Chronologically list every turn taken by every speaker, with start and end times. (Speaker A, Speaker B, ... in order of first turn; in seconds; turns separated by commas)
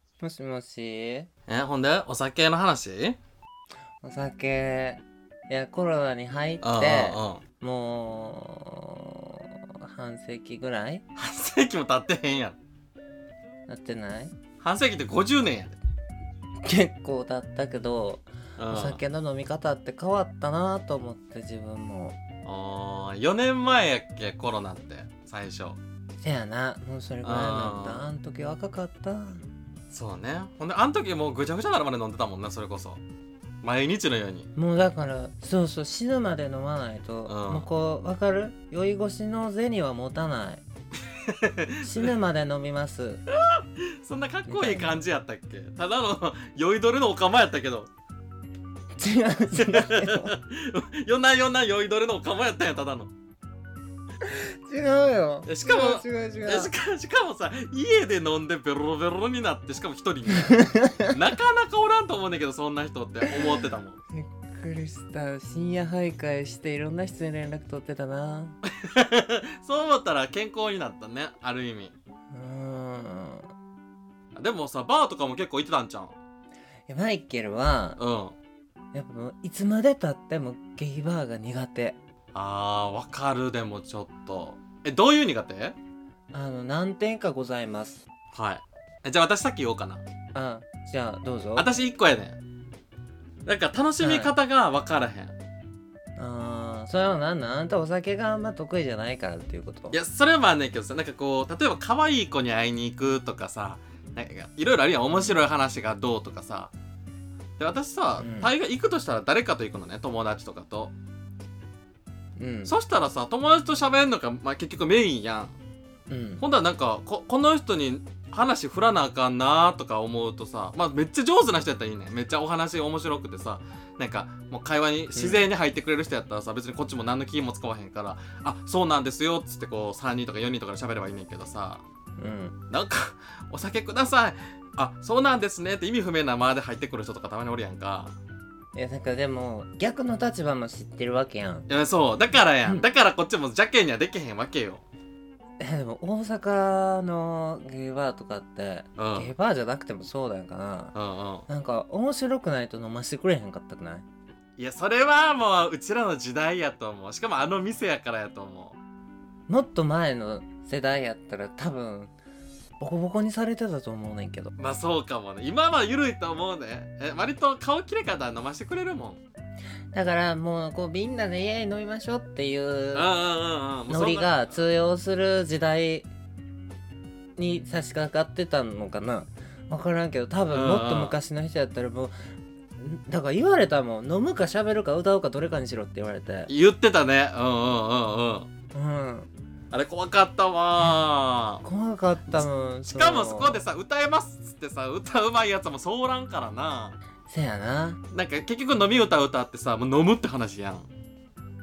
Speaker A: 0.2-1.3, Speaker B: 1.5-3.2, Speaker A: 4.0-11.0, Speaker B: 6.6-7.4, Speaker B: 11.2-12.6, Speaker A: 13.7-14.3, Speaker B: 14.6-15.8, Speaker A: 16.6-22.2, Speaker B: 18.6-19.0, Speaker B: 22.4-25.8, Speaker A: 26.2-29.4, Speaker B: 27.2-28.1, Speaker B: 29.9-33.0, Speaker B: 33.6-34.5, Speaker A: 34.5-40.6, Speaker B: 37.3-37.7, Speaker B: 41.2-42.1, Speaker A: 41.8-43.2, Speaker B: 43.4-47.9, Speaker A: 44.5-44.9, Speaker A: 49.0-50.3, Speaker B: 49.6-53.1, Speaker A: 54.6-56.7, Speaker B: 55.5-64.0, Speaker A: 60.5-61.1, Speaker A: 64.2-68.6, Speaker B: 68.8-71.9, Speaker A: 72.3-73.5, Speaker B: 74.3-76.2, Speaker A: 76.9-78.0, Speaker B: 78.0-78.3, Speaker A: 78.9-82.0, Speaker B: 82.3-85.8, Speaker A: 86.3-88.0, Speaker B: 88.3-90.0, Speaker A: 90.3-91.7, Speaker B: 91.6-92.4, Speaker B: 93.5-95.4, Speaker A: 94.0-94.3, Speaker A: 96.2-100.0, Speaker B: 99.9-106.7, Speaker B: 107.6-110.9, Speaker A: 108.2-108.5, Speaker A: 112.4-112.7, Speaker B: 112.7-115.5, Speaker A: 116.1-116.4, Speaker B: 116.4-131.8, Speaker A: 125.2-125.4, Speaker A: 132.2-132.6, Speaker B: 132.7-138.2, Speaker A: 138.7-141.7, Speaker B: 141.7-144.8, Speaker A: 145.6-150.9, Speaker B: 149.0-149.3, Speaker B: 150.9-151.4, Speaker A: 151.5-154.1, Speaker B: 154.6-158.8, Speaker A: 159.5-162.1, Speaker A: 162.8-164.5, Speaker B: 164.6-169.2, Speaker A: 169.9-173.1, Speaker B: 172.9-174.6, Speaker A: 173.9-176.1, Speaker A: 177.4-186.5, Speaker B: 180.5-181.2, Speaker B: 186.5-188.5, Speaker A: 188.7-189.3, Speaker B: 189.7-191.6, Speaker A: 191.6-193.6, Speaker B: 192.3-197.0, Speaker A: 197.3-198.0, Speaker B: 198.1-200.9